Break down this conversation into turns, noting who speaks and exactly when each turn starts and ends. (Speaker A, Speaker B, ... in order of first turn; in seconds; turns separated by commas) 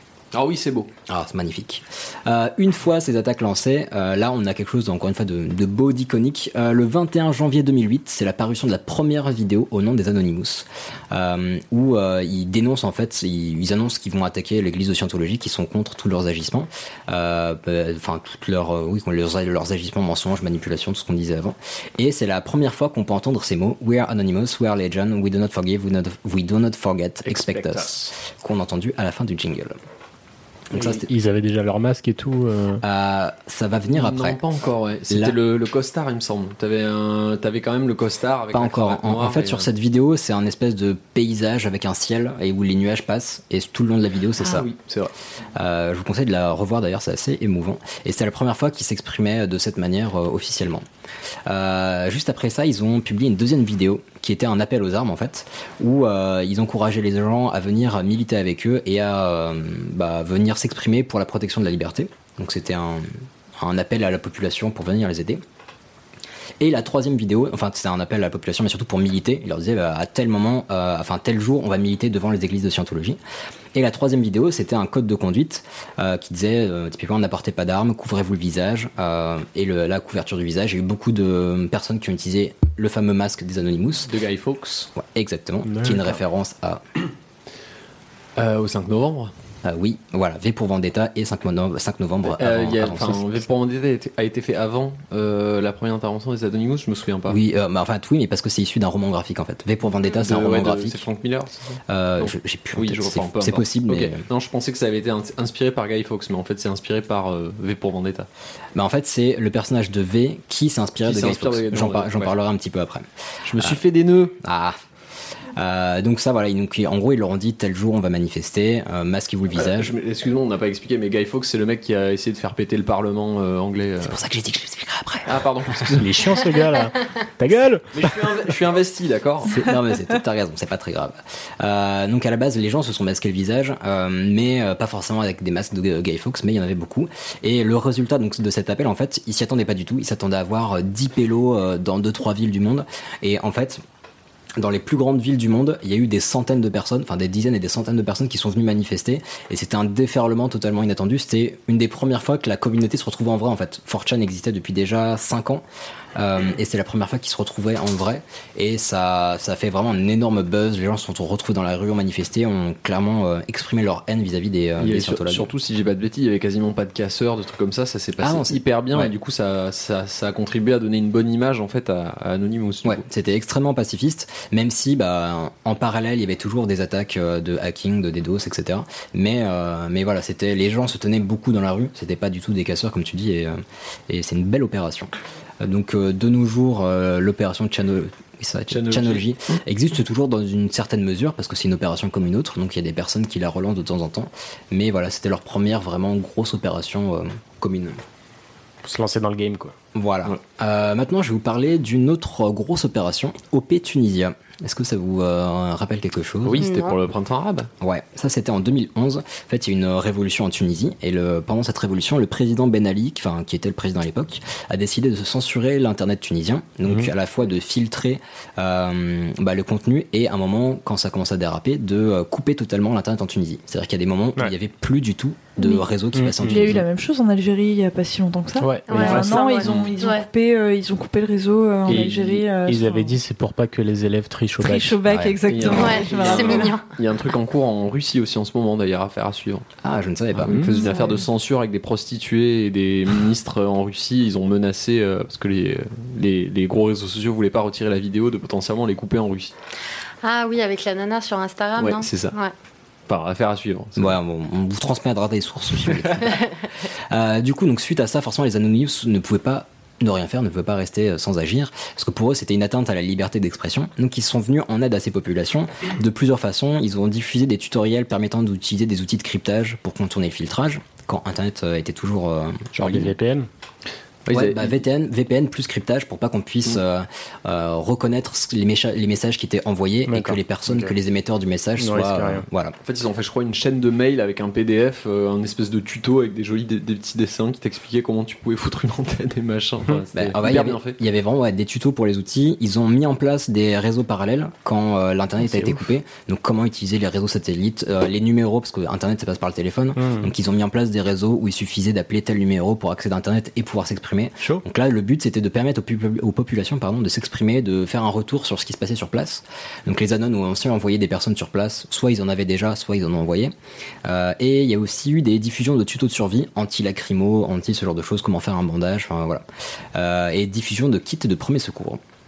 Speaker A: 0.3-0.9, Speaker B: 1.1-29.8, Speaker C: 27.2-28.1, Speaker B: 30.7-31.0, Speaker C: 30.7-32.8, Speaker B: 32.8-34.4, Speaker A: 33.9-39.7, Speaker B: 35.1-35.4, Speaker B: 38.5-44.7, Speaker A: 44.4-45.1, Speaker B: 45.5-50.8, Speaker B: 51.5-63.1, Speaker B: 63.6-65.4, Speaker B: 66.6-73.2, Speaker B: 73.7-84.1, Speaker A: 84.1-84.9, Speaker B: 84.9-86.8, Speaker C: 85.6-86.2, Speaker A: 88.3-89.3, Speaker B: 89.6-93.4, Speaker A: 92.4-97.4, Speaker B: 97.3-101.0, Speaker A: 100.1-108.3, Speaker B: 101.9-104.2, Speaker B: 108.8-113.0, Speaker A: 111.0-112.3, Speaker A: 113.5-114.3, Speaker B: 114.4-114.8, Speaker B: 115.5-119.9, Speaker A: 119.6-124.2, Speaker B: 124.0-125.3, Speaker A: 125.3-126.0, Speaker C: 126.0-128.2, Speaker A: 127.9-129.5, Speaker B: 129.5-143.8, Speaker B: 144.6-155.6, Speaker B: 156.2-165.5, Speaker A: 164.8-173.0, Speaker B: 168.2-169.1, Speaker B: 172.8-198.0, Speaker A: 188.7-189.6, Speaker C: 198.8-199.7, Speaker B: 199.9-206.6, Speaker A: 206.4-207.7, Speaker D: 206.6-207.0, Speaker B: 207.8-226.8, Speaker C: 216.8-217.1, Speaker E: 225.6-225.8, Speaker C: 226.1-226.8, Speaker E: 226.4-233.2, Speaker C: 228.6-229.2, Speaker D: 228.9-230.2, Speaker A: 228.9-229.9, Speaker A: 231.9-232.4, Speaker C: 232.7-235.0, Speaker E: 234.6-236.7, Speaker B: 235.1-235.4, Speaker A: 235.5-239.6, Speaker D: 235.7-236.8, Speaker B: 239.8-240.5, Speaker A: 240.3-249.5, Speaker C: 240.5-240.9, Speaker D: 250.2-252.5, Speaker A: 251.8-252.3, Speaker A: 253.1-254.1, Speaker B: 254.0-256.4, Speaker D: 256.2-256.6, Speaker B: 257.1-273.1, Speaker C: 272.7-273.5, Speaker A: 274.3-274.7, Speaker B: 274.3-282.7, Speaker C: 280.1-280.9, Speaker C: 281.8-282.4, Speaker A: 282.8-291.0, Speaker B: 290.1-313.5, Speaker C: 295.4-295.8, Speaker C: 299.9-300.3, Speaker C: 304.4-304.6, Speaker B: 314.1-319.4, Speaker B: 319.9-322.0